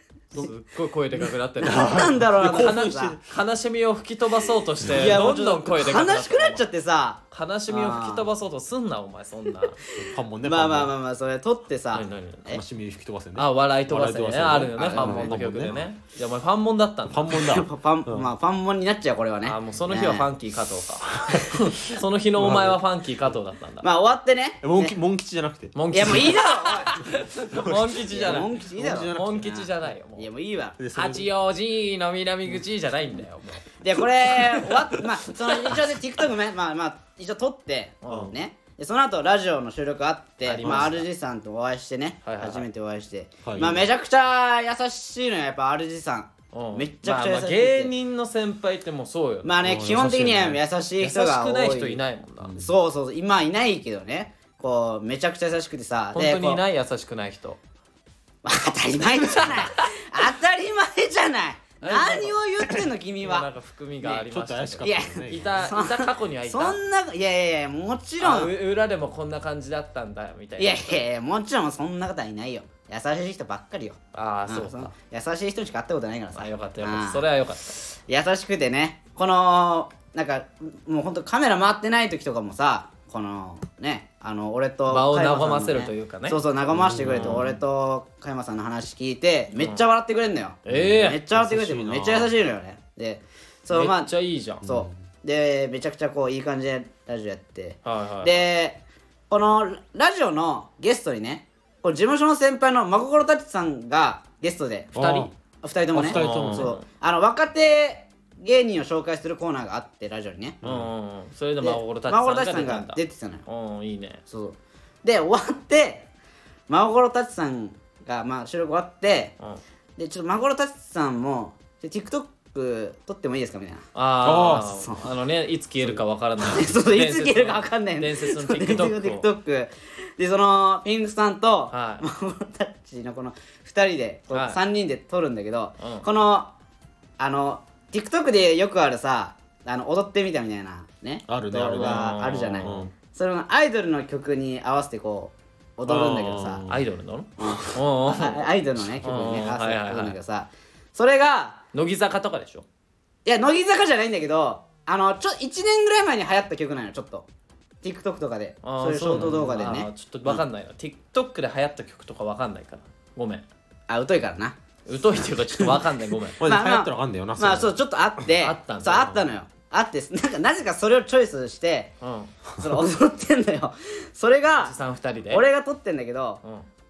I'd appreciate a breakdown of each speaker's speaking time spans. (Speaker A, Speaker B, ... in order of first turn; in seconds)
Speaker A: 0.3-6.7, 7.3-9.8, 11.9-12.5, 13.3-17.3, 19.4-23.9, 25.7-30.3, 30.9-33.6, 38.0-38.3, 40.4-41.1, 42.2-42.6, 46.5-49.6, 51.0-52.5, 56.1-57.6, 59.2-59.9, 61.8-62.4, 63.2-66.8, 68.2-71.0, 74.1-74.9, 76.3-77.8, 84.9-86.4, 87.0-87.6, 90.7-91.2, 93.7-94.6, 97.8-98.3, 105.0-105.3, 106.0-106.8, 110.6-114.2, 123.9-129.3, 131.7-132.1, 134.3-134.6, 135.8-136.1, 141.7-142.9, 146.7-148.5, 149.0-150.2, 151.7-152.7, 158.6-163.5, 164.8-166.4, 168.4-169.1, 172.0-172.3, 174.6-175.4
Speaker B: 1.6-3.2, 10.0-10.9, 12.5-15.8, 17.1-18.3, 21.2-21.6, 22.4-22.8, 24.6-26.3, 27.5-29.7, 30.8-31.3, 34.4-34.8, 40.6-40.9, 43.4-43.9, 49.6-50.6, 52.4-52.7, 64.3-65.6, 86.7-87.5, 90.7-92.3, 94.6-94.9, 104.9-105.3, 105.9-106.7, 110.6-110.9, 124.2-124.7, 141.3-142.9, 145.8-146.8, 166.4-167.8
Speaker C: 1.6-3.2, 4.9-8.3, 9.9-12.6, 14.8-15.8, 17.4-20.3, 23.8-25.0, 25.9-27.1, 28.1-30.8, 33.8-47.9, 49.4-52.0, 52.6-56.6, 58.4-63.5, 64.8-68.5, 70.6-77.2, 78.1-94.1, 94.6-105.1, 105.6-110.6, 111.6-113.4, 114.3-116.1, 116.7-119.3, 120.0-123.9, 124.5-125.0, 126.4-136.5, 137.2-146.6, 147.4-151.6, 153.2-157.2, 157.8-160.4, 163.9-164.6, 166.4-171.9, 172.6-174.7, 175.3-176.4